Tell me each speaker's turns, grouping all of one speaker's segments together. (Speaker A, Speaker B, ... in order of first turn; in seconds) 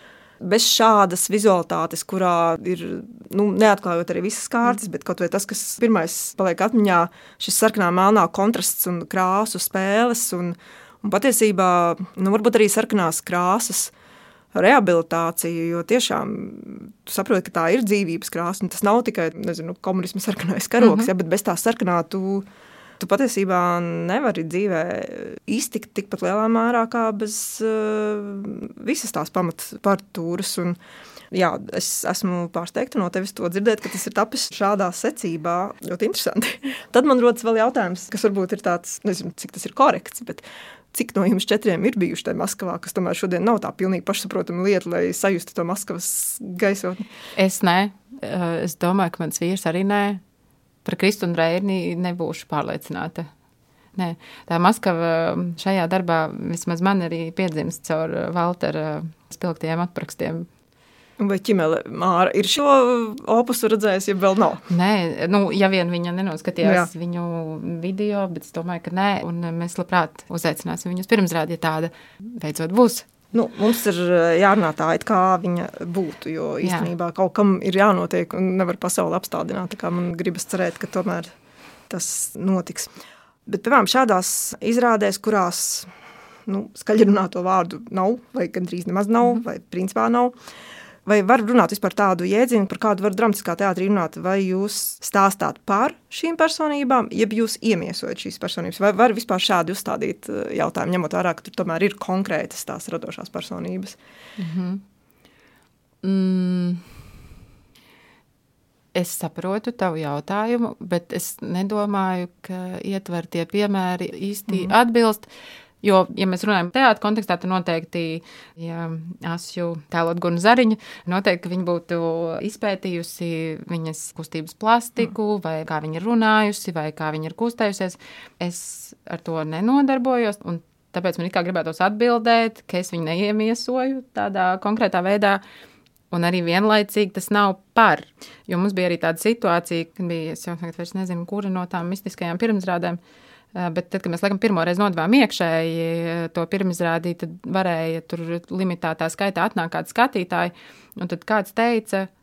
Speaker A: 0.4-13.9, 14.5-22.5, 23.0-30.8, 31.3-47.1, 61.2-64.6, 66.6-66.9, 73.3-81.3, 81.9-82.9, 83.5-85.9, 86.5-90.3, 91.0-104.0, 114.5-114.7
Speaker B: 20.8-21.1, 47.3-50.2, 50.8-53.3, 53.9-60.5, 64.7-73.1, 76.6-76.9, 104.4-104.8, 106.0-107.0, 108.9-115.3, 115.8-135.4, 136.1-143.0, 143.5-152.1